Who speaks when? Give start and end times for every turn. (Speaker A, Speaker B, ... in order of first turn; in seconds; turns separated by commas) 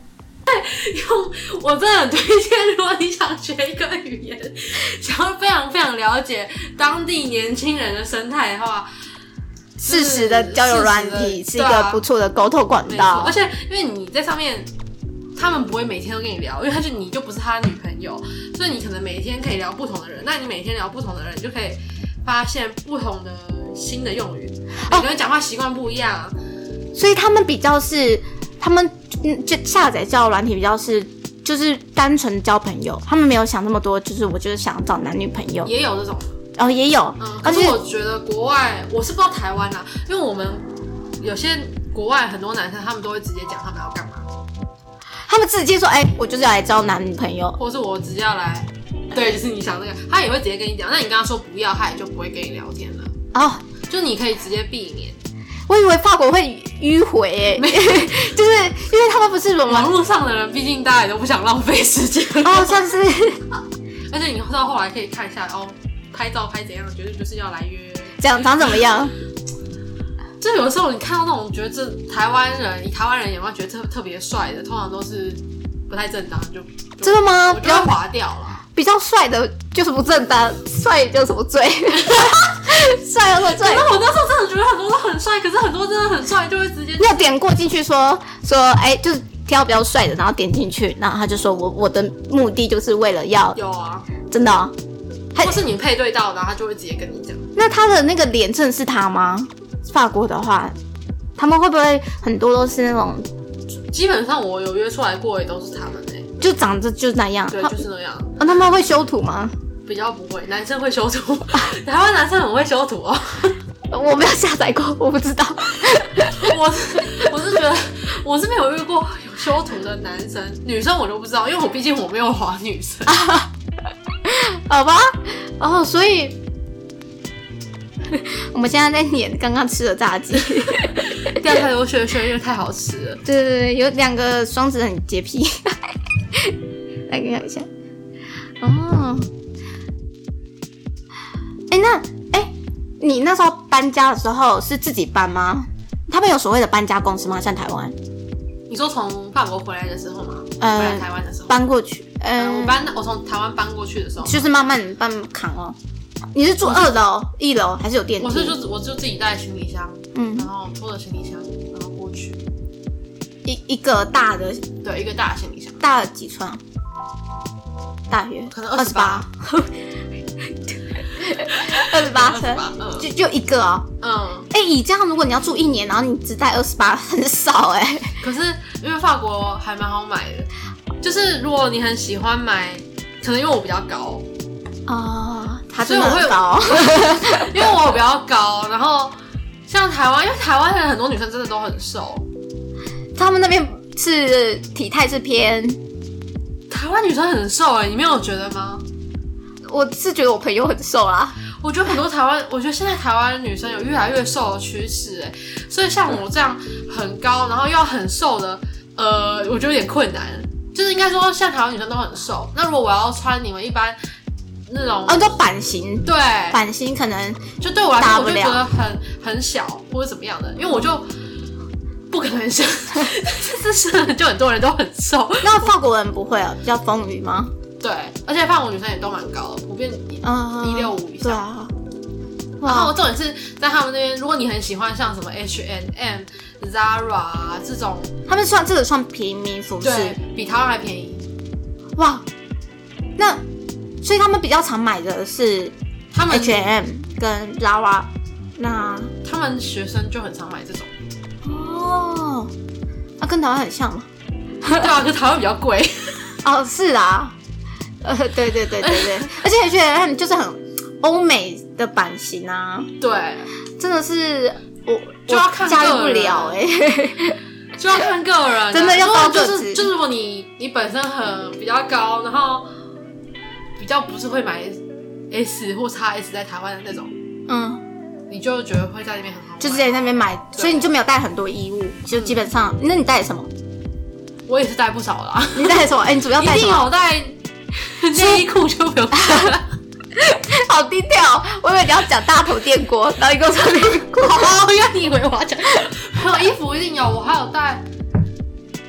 Speaker A: 0.5-8.9, Speaker A: 9.8-12.0, Speaker B: 9.8-13.3, Speaker A: 12.9-14.7, Speaker A: 15.3-26.4, Speaker B: 26.9-35.7, Speaker A: 35.6-36.3, Speaker B: 36.6-37.8, Speaker A: 37.2-44.3, Speaker B: 45.2-47.6, Speaker A: 47.6-53.1, Speaker B: 53.3-53.6, Speaker A: 53.9-55.2, Speaker B: 55.7-59.9, Speaker A: 57.5-58.3, Speaker A: 59.7-62.9, Speaker B: 62.4-63.5, Speaker A: 64.1-68.8, Speaker B: 68.2-69.1, Speaker A: 70.4-78.6, Speaker B: 77.0-77.9, Speaker B: 78.7-83.9, Speaker A: 82.0-82.6, Speaker A: 83.4-87.3, Speaker B: 87.0-93.6, Speaker A: 93.5-94.1, Speaker B: 94.3-94.7, Speaker B: 95.3-95.6, Speaker A: 95.4-97.5, Speaker B: 97.5-100.8, Speaker B: 101.3-103.3, Speaker A: 103.9-106.3, Speaker B: 106.4-107.8, Speaker A: 107.5-108.4, Speaker B: 108.4-109.5, Speaker A: 109.8-113.6, Speaker B: 113.9-116.5, Speaker A: 116.3-123.2, Speaker B: 123.1-123.5, Speaker B: 124.2-126.4, Speaker B: 128.1-131.3, Speaker A: 131.1-133.2, Speaker B: 133.2-135.7, Speaker B: 137.1-137.7, Speaker B: 138.6-139.3, Speaker B: 141.7-147.9, Speaker A: 148.7-151.6, Speaker B: 150.6-152.8, Speaker A: 152.4-154.4, Speaker B: 154.2-155.8, Speaker B: 156.3-158.6, Speaker A: 156.6-157.0, Speaker A: 158.2-162.4, Speaker B: 160.1-160.5, Speaker B: 163.4-164.6, Speaker A: 164.8-165.9, Speaker B: 165.8-166.6, Speaker B: 168.1-169.7, Speaker A: 168.5-169.2, Speaker B: 170.9-173.9, Speaker A: 171.4-173.1, Speaker A: 174.0-174.5, Speaker B: 174.5-178.2, Speaker A: 178.2-180.5, Speaker A: 181.0-184.2, Speaker B: 184.9-187.6, Speaker A: 185.8-189.2, Speaker A: 189.7-192.2, Speaker B: 193.1-195.8, Speaker A: 196.7-198.8, Speaker B: 199.7-201.4, Speaker A: 201.6-214.0, Speaker A: 214.7-215.3, Speaker B: 215.1-217.4, Speaker A: 216.0-216.6, Speaker A: 217.6-221.1, Speaker B: 218.0-218.6, Speaker A: 222.1-225.8, Speaker B: 225.4-227.5, Speaker A: 227.8-231.4, Speaker B: 230.2-231.7, Speaker B: 232.6-232.9, Speaker A: 232.6-238.1, Speaker B: 238.3-240.2, Speaker A: 239.8-241.3, Speaker B: 242.0-242.2, Speaker B: 243.2-243.4, Speaker B: 244.0-245.7, Speaker A: 246.1-246.7, Speaker B: 246.3-249.1, Speaker A: 249.2-250.9, Speaker B: 251.4-252.5, Speaker B: 253.2-254.1, Speaker A: 254.8-256.3, Speaker B: 256.4-257.3, Speaker B: 258.0-262.9, Speaker A: 258.8-259.4, Speaker A: 263.0-263.5, Speaker B: 263.8-267.4, Speaker A: 265.3-266.6, Speaker A: 267.8-272.7, Speaker B: 268.7-269.9, Speaker A: 273.8-277.1, Speaker B: 277.5-277.8, Speaker A: 278.3-279.9, Speaker B: 279.6-283.5, Speaker A: 280.5-280.9, Speaker A: 284.5-289.7, Speaker B: 285.5-286.9, Speaker B: 288.1-288.4, Speaker B: 290.2-294.5, Speaker A: 293.7-297.9